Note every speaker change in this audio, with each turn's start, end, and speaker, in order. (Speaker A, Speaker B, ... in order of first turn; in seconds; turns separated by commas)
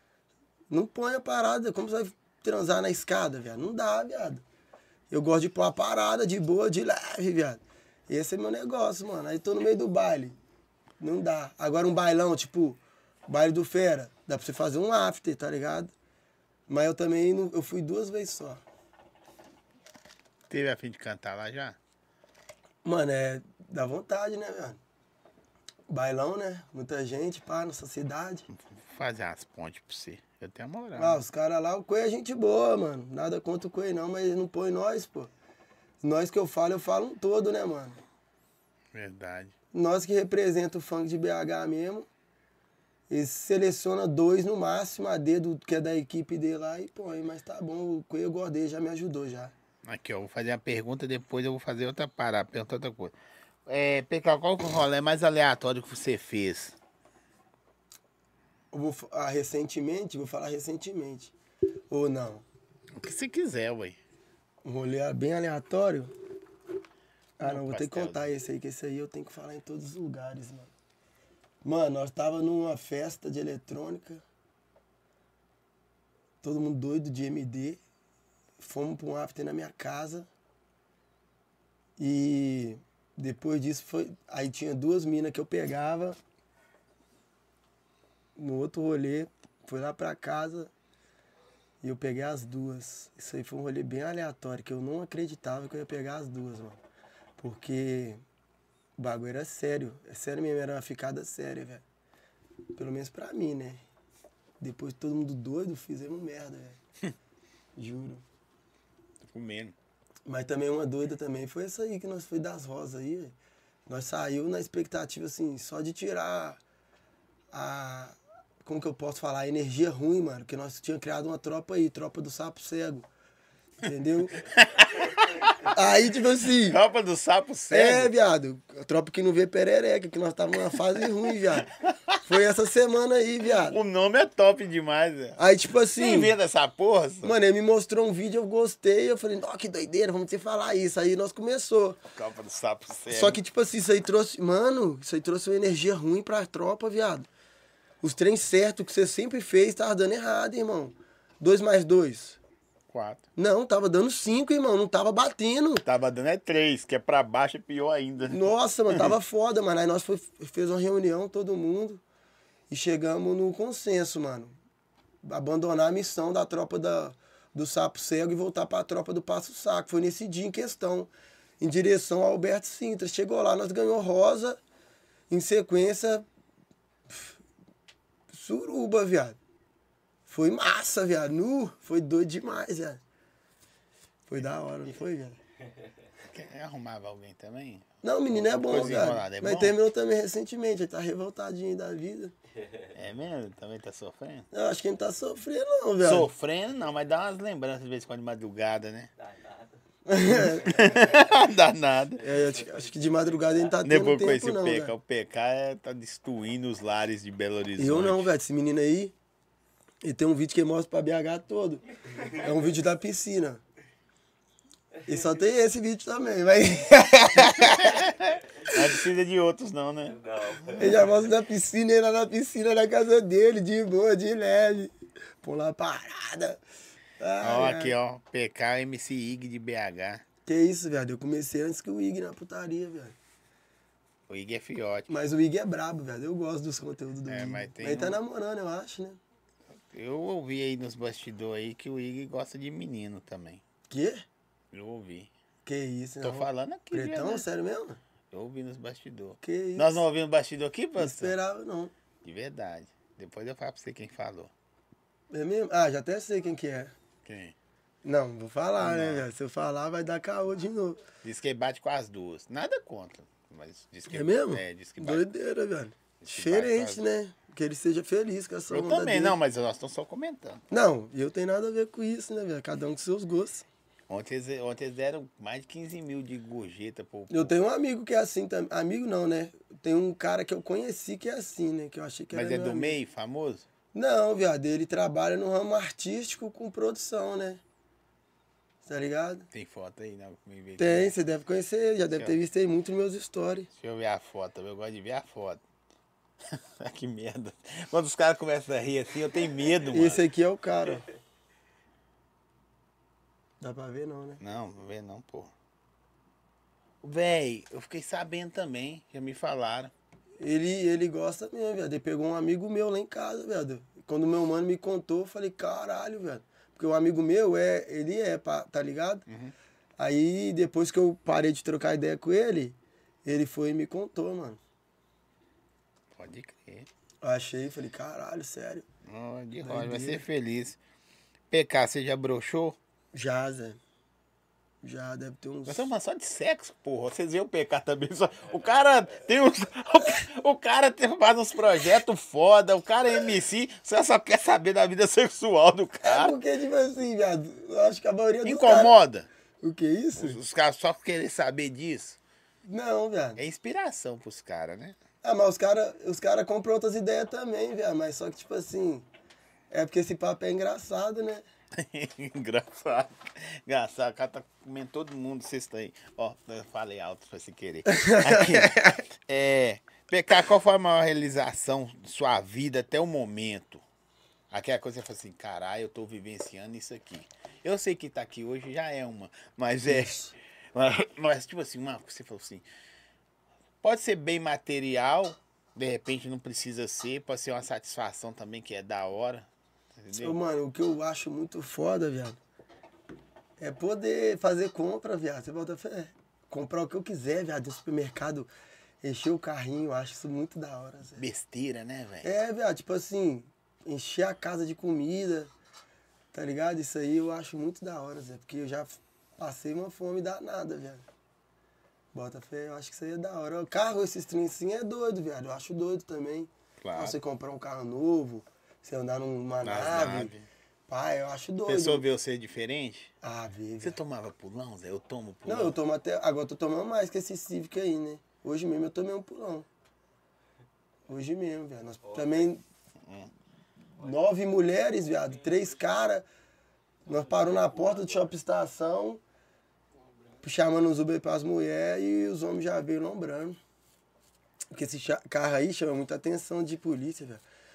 Speaker A: 0.7-4.4, Speaker A: 5.1-10.4, Speaker A: 11.0-15.9, Speaker A: 16.7-18.6, Speaker B: 20.5-21.8, Speaker A: 22.9-24.8, Speaker A: 25.9-28.5, Speaker B: 28.5-31.2, Speaker A: 31.0-35.3, Speaker A: 36.0-38.0, Speaker B: 38.9-39.5, Speaker A: 39.7-42.1, Speaker A: 43.1-49.5, Speaker B: 49.8-53.1, Speaker B: 53.7-56.8, Speaker A: 58.7-61.3, Speaker A: 61.9-62.5, Speaker B: 63.0-64.0, Speaker A: 64.6-66.1, Speaker A: 67.4-70.7, Speaker B: 67.4-68.3, Speaker A: 71.6-74.2, Speaker A: 76.4-77.8, Speaker A: 78.6-80.3, Speaker A: 82.0-86.2, Speaker A: 88.4-90.7, Speaker A: 91.8-96.8, Speaker A: 97.4-98.2, Speaker A: 99.0-101.8, Speaker A: 102.8-103.8, Speaker A: 104.6-106.8, Speaker A: 107.8-108.2, Speaker B: 109.2-109.8, Speaker A: 110.3-113.3, Speaker A: 113.9-116.6, Speaker A: 117.5-123.1, Speaker A: 123.8-124.4, Speaker B: 124.4-125.7, Speaker A: 125.7-126.8, Speaker B: 126.6-128.1, Speaker A: 127.7-131.7, Speaker B: 131.9-132.2, Speaker A: 132.2-133.8, Speaker B: 133.6-135.4, Speaker A: 135.4-136.3, Speaker B: 136.0-137.3, Speaker A: 137.2-142.0, Speaker B: 142.2-143.4, Speaker A: 143.1-147.3, Speaker A: 148.0-152.4, Speaker B: 152.9-153.2, Speaker A: 153.4-155.8, Speaker B: 155.8-159.1, Speaker A: 158.3-162.0, Speaker A: 162.7-164.6, Speaker A: 165.2-174.6, Speaker A: 175.3-176.3, Speaker A: 177.1-177.4, Speaker A: 178.3-179.4, Speaker A: 180.3-183.0, Speaker A: 184.3-185.4, Speaker C: 185.6-185.9, Speaker B: 186.2-189.8, Speaker A: 188.0-192.3, Speaker C: 192.5-193.0, Speaker B: 192.9-194.5, Speaker A: 194.5-196.3, Speaker B: 196.0-199.1, Speaker C: 199.2-201.4, Speaker A: 200.1-201.0, Speaker B: 200.3-202.2, Speaker C: 202.2-203.8, Speaker A: 202.2-204.9, Speaker B: 203.8-208.3, Speaker A: 207.8-209.1, Speaker A: 210.0-213.6, Speaker C: 212.2-212.5, Speaker A: 215.1-218.1, Speaker B: 217.4-221.0, Speaker C: 220.1-221.2, Speaker A: 220.8-226.6, Speaker A: 227.2-228.0, Speaker B: 227.4-230.2, Speaker A: 230.5-233.2, Speaker B: 234.3-235.1, Speaker A: 235.1-239.2, Speaker B: 237.3-238.2, Speaker B: 239.7-243.6, Speaker A: 243.9-244.2, Speaker B: 244.7-245.3, Speaker A: 245.7-248.0, Speaker B: 246.2-247.5, Speaker B: 248.3-251.3, Speaker A: 249.4-250.0, Speaker A: 251.0-251.9, Speaker B: 252.2-254.5, Speaker A: 255.3-256.9, Speaker B: 257.2-257.6, Speaker A: 258.1-261.0, Speaker B: 258.8-259.3, Speaker B: 261.2-265.3, Speaker A: 264.1-269.4, Speaker B: 266.2-267.0, Speaker B: 268.7-270.6, Speaker A: 270.7-273.7, Speaker B: 274.1-277.6, Speaker A: 277.3-283.0, Speaker B: 282.3-283.6, Speaker A: 283.9-287.6, Speaker A: 288.8-289.5, Speaker B: 289.5-291.2, Speaker A: 290.8-293.7, Speaker B: 293.7-295.6, Speaker B: 296.5-300.2, Speaker A: 299.9-301.1, Speaker A: 303.6-304.4, Speaker B: 304.4-305.5, Speaker B: 307.0-309.9, Speaker A: 310.4-319.2, Speaker B: 319.3-319.5, Speaker A: 320.0-324.6, Speaker B: 326.2-326.9, Speaker A: 327.2-328.9, Speaker B: 329.1-330.8, Speaker A: 329.6-330.2, Speaker B: 331.5-332.8, Speaker A: 333.1-333.8, Speaker A: 334.8-335.9, Speaker B: 335.7-346.4, Speaker A: 346.0-348.9, Speaker B: 348.4-349.3, Speaker A: 349.6-350.4, Speaker B: 350.2-352.2, Speaker A: 352.7-353.4, Speaker B: 353.4-355.0, Speaker A: 355.2-359.1, Speaker A: 359.7-361.4, Speaker B: 361.8-373.8, Speaker A: 367.9-369.0, Speaker B: 374.5-380.2, Speaker A: 379.9-380.3, Speaker B: 380.8-382.6, Speaker B: 383.8-390.4, Speaker A: 390.1-392.4, Speaker A: 393.6-398.5, Speaker A: 399.0-401.2, Speaker B: 401.2-402.3, Speaker A: 402.2-405.5, Speaker A: 406.3-411.1, Speaker A: 412.1-420.3, Speaker B: 416.8-417.2, Speaker B: 419.6-420.5, Speaker A: 420.9-422.1, Speaker B: 421.7-423.1, Speaker A: 423.2-424.0, Speaker B: 423.8-425.8, Speaker A: 425.5-429.7, Speaker A: 431.1-432.6, Speaker C: 432.1-432.5, Speaker B: 433.0-433.3, Speaker A: 434.0-436.3, Speaker A: 437.1-439.2, Speaker C: 437.4-438.1, Speaker A: 440.4-443.6, Speaker A: 444.7-447.4